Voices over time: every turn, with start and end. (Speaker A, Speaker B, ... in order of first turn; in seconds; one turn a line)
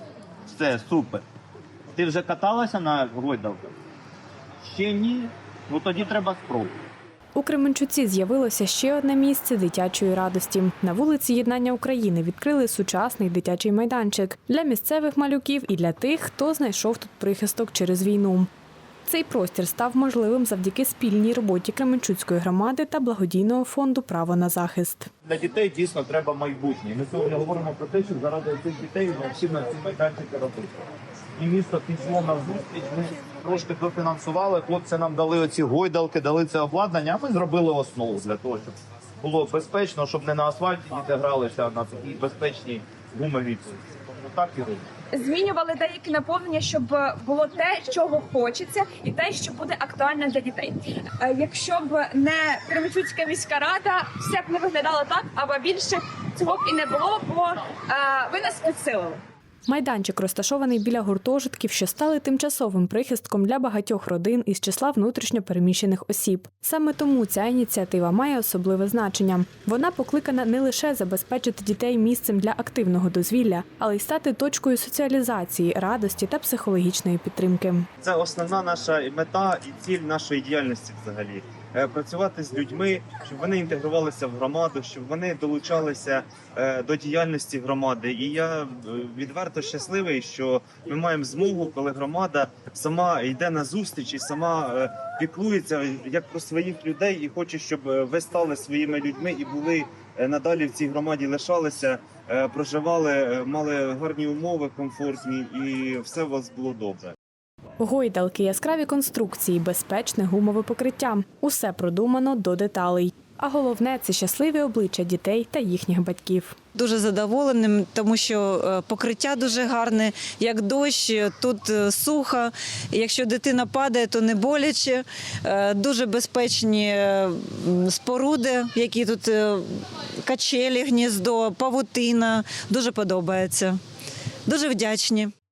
Speaker A: 0.4-1.2
Speaker A: 1.9-3.7
Speaker A: 4.6-6.7
Speaker B: 7.3-18.5
Speaker B: 19.1-25.1
Speaker A: 25.3-30.7
Speaker A: 31.4-44.8
Speaker C: 45.1-59.2
Speaker B: 59.7-77.9
Speaker D: 78.0-107.1
Speaker B: 107.8-116.6
Speaker E: 116.7-133.8
Speaker E: 134.5-135.3